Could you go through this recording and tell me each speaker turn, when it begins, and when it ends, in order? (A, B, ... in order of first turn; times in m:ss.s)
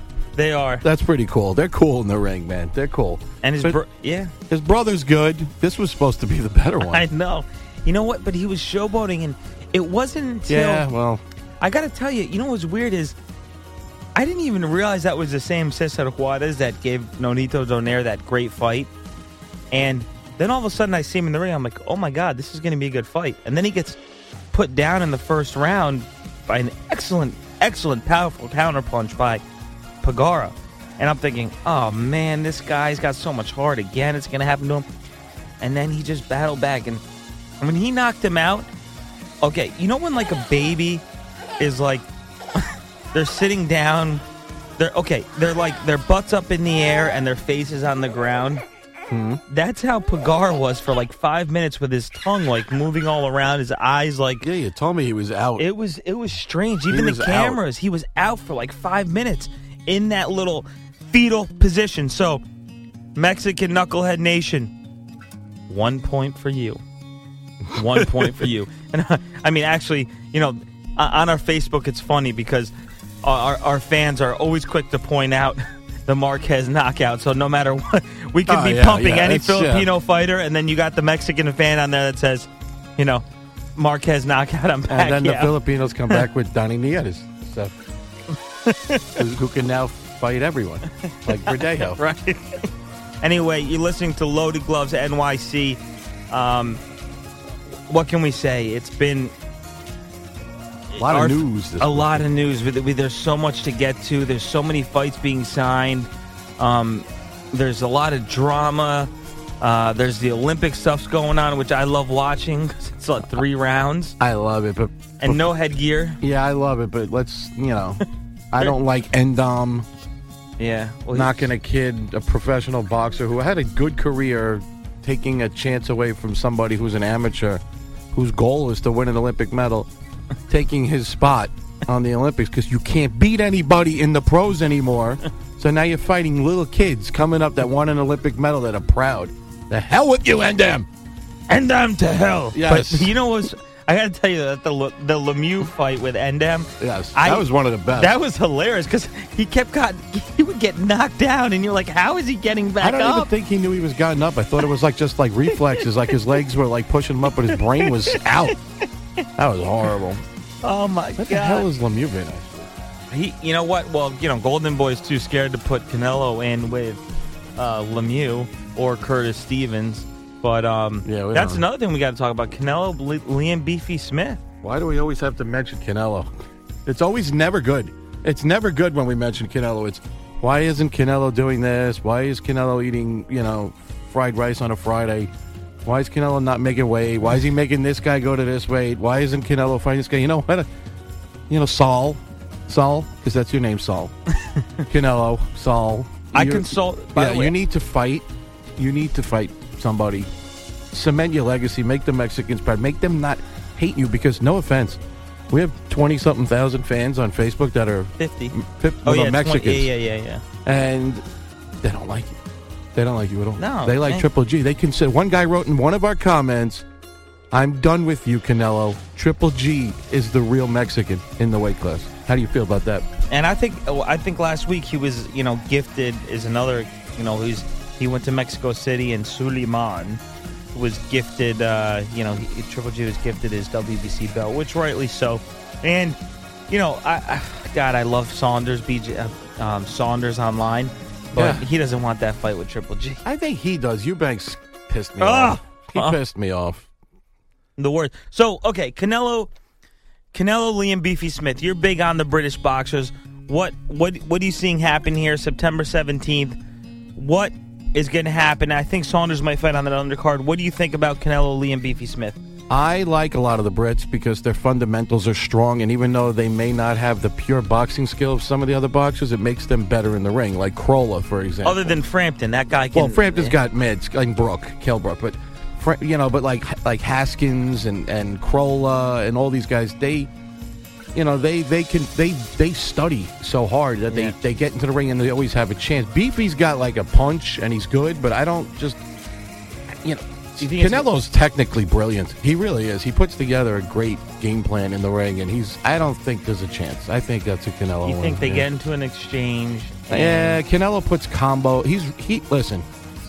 0:00.3-0:00.8 A
0:00.8-0:03.8 B
0:03.4-0:04.3 A
0:04.5-0:07.1 B
0:06.8-0:10.9 A
0:10.5-0:11.2 B
0:11.6-0:13.1 A
0:14.1-0:18.9 A
0:19.7-0:24.0 A
0:24.5-0:29.4 A
0:30.0-0:34.8 A
0:35.6-0:37.0 A
0:37.6-0:38.7 A
0:39.4-0:41.0 A
0:41.6-0:44.2 A
0:44.8-0:48.6 A
0:49.1-0:49.4 B
0:49.5-0:54.5 A
0:54.4-0:55.7 B
0:55.6-1:02.4 A
0:56.9-0:57.6 B
1:03.1-1:04.7 A
1:05.7-1:06.8 A
1:07.7-1:23.2 A
1:08.0-1:08.3 B
1:18.5-1:19.9 B
1:23.8-1:26.2 A
1:24.9-1:27.7 B
1:28.6-1:29.1 A
1:29.1-1:32.0 B
1:31.5-1:32.7 A
1:33.2-1:36.8 A
1:37.9-1:39.3 A
1:40.9-1:54.2 A
1:41.0-1:42.2 B
1:54.2-1:55.5 B
1:55.2-1:56.2 A
1:56.2-1:59.9 B
2:00.6-2:01.5 A
2:01.1-2:07.6 B
2:08.1-2:09.9 B
2:10.5-2:20.9 B
2:21.5-2:33.3 A
2:22.5-2:23.1 B
2:26.8-2:28.2 B
2:32.8-2:38.6 B
2:37.4-2:38.5 A
2:39.4-2:40.2 B
2:40.6-2:41.7 A
2:41.2-2:42.7 B
2:43.1-2:47.0 A
2:47.6-2:54.4 A
2:51.0-2:51.6 B
2:54.6-2:56.3 B
2:56.8-3:05.3 B
3:05.8-3:10.7 B
3:11.5-3:14.1 B
3:14.9-3:20.3 B
3:16.3-3:17.5 A
3:20.9-3:25.0 B
3:25.5-3:29.9 B
3:28.2-3:30.4 A
3:30.6-3:31.2 B
3:31.8-3:32.4 B
3:32.9-3:36.8 B
3:33.6-3:34.2 A
3:37.5-3:43.0 B
3:43.3-3:50.2 A
3:50.7-3:56.2 A
3:56.7-4:03.2 A
4:01.3-4:01.6 B
4:03.2-4:06.9 B
4:05.2-4:06.2 A
4:07.8-4:09.5 A
4:10.3-4:16.6 A
4:17.2-4:22.4 A
4:22.7-4:32.0 B
4:31.6-4:33.6 A
4:32.9-4:40.3 B
4:41.1-4:49.0 B
4:44.1-4:44.4 A
4:50.0-4:58.7 B
4:50.6-4:51.1 A
4:58.0-5:00.6 A
5:00.1-5:02.8 B